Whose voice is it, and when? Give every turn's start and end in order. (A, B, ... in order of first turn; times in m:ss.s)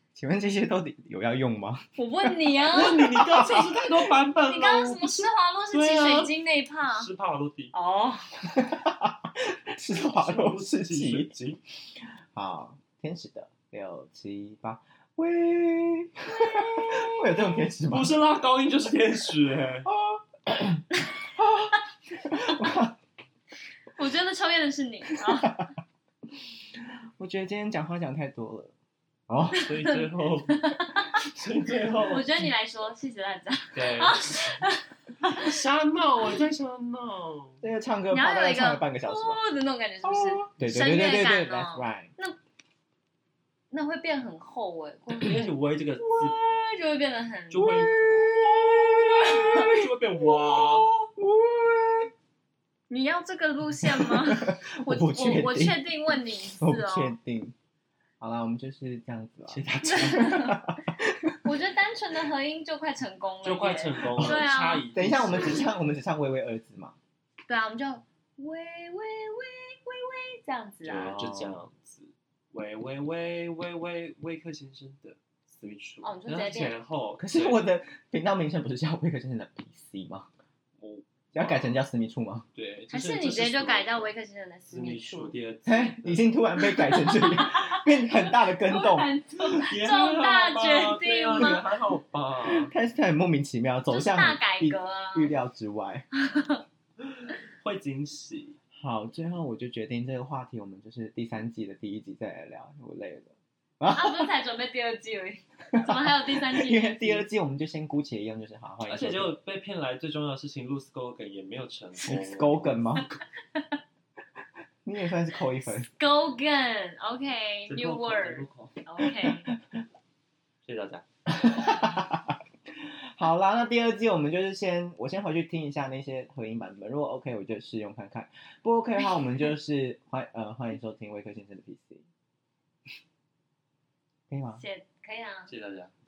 0:00.1-0:02.3 A
0:02.0-0:03.0 B
0:02.7-0:07.7 C
0:02.8-0:03.8 A
0:04.4-0:07.1 B
0:07.7-0:08.3 B
0:08.5-0:11.3 A
0:10.0-0:11.6 C
0:12.3-0:18.2 A
0:16.4-0:19.9 C
0:19.8-0:23.0 A
0:24.0-0:25.7 B
0:25.1-0:25.5 A
0:26.8-0:28.7 A
0:29.3-0:29.7 A
0:29.5-0:31.1 B
0:29.5-0:32.5 C
0:32.0-0:35.5 B
0:33.7-0:34.6 C
0:35.2-0:37.6 C
0:37.6-0:39.4 A
0:38.1-0:42.4 B
0:40.0-0:42.1 A
0:43.7-0:45.4 B
0:45.1-0:46.4 C
0:46.2-0:47.8 B
0:47.5-0:48.0 C
0:47.6-0:52.1 A
0:49.1-0:50.9 C
0:52.9-0:57.2 B
0:53.8-0:55.8 A
0:56.5-0:57.5 A
0:58.2-1:01.4 A
0:59.5-1:00.5 C
0:59.9-1:00.6 B
1:01.4-1:04.8 B
1:03.4-1:05.7 C
1:04.1-1:04.4 A
1:04.9-1:07.0 A
1:07.5-1:11.5 B
1:10.8-1:17.7 C
1:16.0-1:16.8 B
1:17.2-1:20.3 A
1:20.8-1:21.8 C
1:21.3-1:22.4 A
1:22.5-1:24.1 C
1:22.9-1:25.4 B
1:24.7-1:26.3 C
1:25.6-1:29.1 A
1:26.6-1:31.7 B
1:29.4-1:32.7 C
1:32.4-1:36.0 A
1:33.9-1:35.3 B
1:36.1-1:36.6 B
1:37.2-1:38.6 C
1:38.8-1:44.3 A
1:43.9-1:47.3 B
1:46.5-1:49.3 A
1:48.8-1:53.1 C
1:52.0-1:53.1 A
1:54.8-1:55.9 A
1:55.7-1:59.5 B
1:57.7-1:58.7 C
1:59.0-1:59.6 A
2:00.6-2:01.0 C
2:01.3-2:12.0 A
2:14.3-2:14.6 A
2:14.6-2:15.5 B
2:15.5-2:15.9 C